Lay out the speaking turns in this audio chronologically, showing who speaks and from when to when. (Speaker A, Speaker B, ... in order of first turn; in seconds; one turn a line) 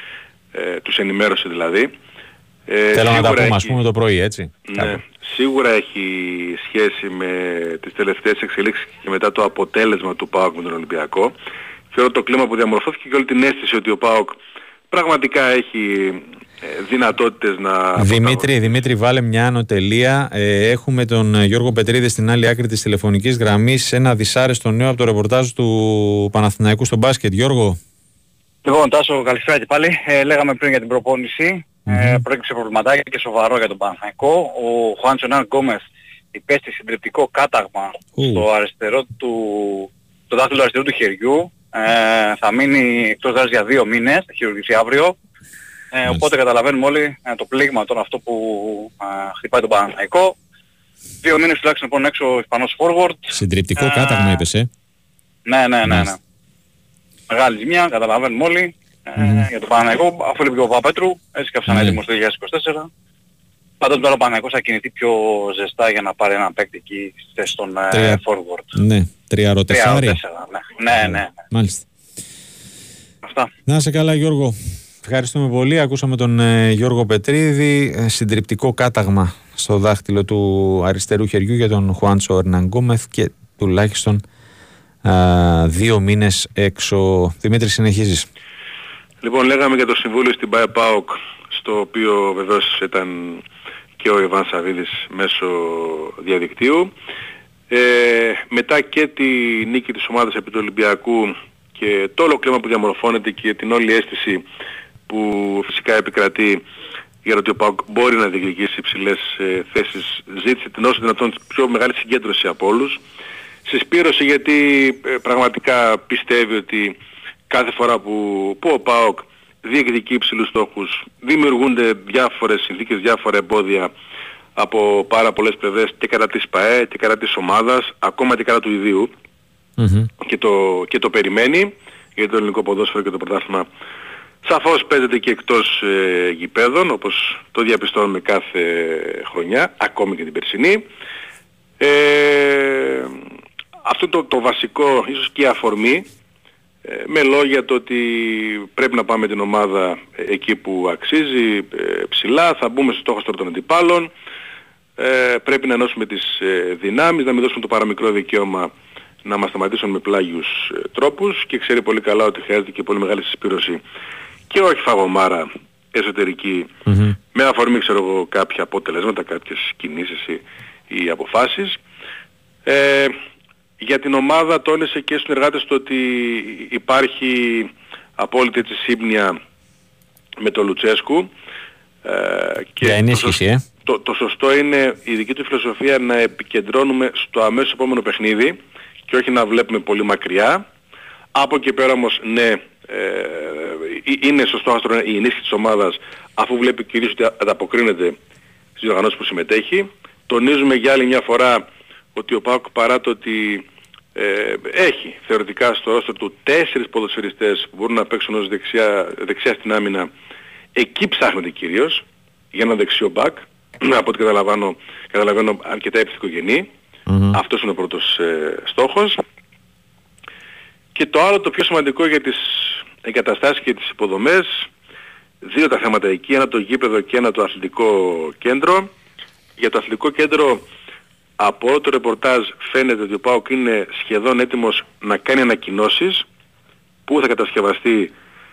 Speaker A: 0.5-1.9
Speaker A: 2.7-3.8
Speaker B: 2.9-5.0
Speaker A: 4.7-11.3
Speaker A: 11.9-14.4
Speaker A: 14.9-18.5
Speaker B: 18.0-27.8
Speaker C: 28.6-45.1
Speaker B: 31.9-32.2
Speaker B: 38.2-38.5
Speaker C: 45.9-50.3
Speaker C: 51.2-54.5
Speaker B: 53.3-54.7
Speaker C: 55.5-56.2
Speaker B: 55.9-56.1
Speaker C: 57.3-62.9
Speaker B: 59.2-59.5
Speaker B: 61.7-62.0
Speaker C: 63.8-68.7
Speaker B: 67.9-68.2
Speaker B: 68.7-70.2
Speaker C: 69.7-71.3
Speaker B: 71.0-71.9
Speaker C: 73.2-73.5
Speaker B: 73.7-84.2
Speaker B: 85.0-88.3
Speaker A: 89.2-93.4
Speaker A: 94.0-96.9
Speaker A: 97.7-104.4
Speaker A: 105.1-106.6
Speaker A: 107.2-113.0
Speaker A: 113.7-117.0
Speaker A: 117.5-123.9
Speaker A: 124.6-129.1
Speaker B: 129.8-130.1
Speaker A: 130.2-133.7
Speaker A: 134.4-140.8
Speaker A: 141.8-143.2
Speaker A: 143.8-146.1
Speaker A: 146.9-154.1
Speaker A: 155.0-158.7
Speaker A: 159.2-163.8
Speaker A: 164.5-166.7
Speaker B: 166.9-167.2
Speaker A: 167.3-171.8
Speaker A: 172.7-173.2
Speaker A: 173.8-179.4
Speaker A: 180.4-181.3
Speaker A: 182.0-190.6
Speaker B: 182.8-183.7
Speaker A: 191.3-198.2
Speaker A: 198.8-203.7
Speaker A: 204.2-210.1
Speaker A: 210.8-216.7
Speaker B: 217.1-217.4
Speaker A: 217.3-219.2
Speaker A: 220.9-224.6
Speaker A: 225.4-228.9
Speaker A: 229.6-230.6
Speaker A: 231.4-236.3
Speaker A: 237.1-238.1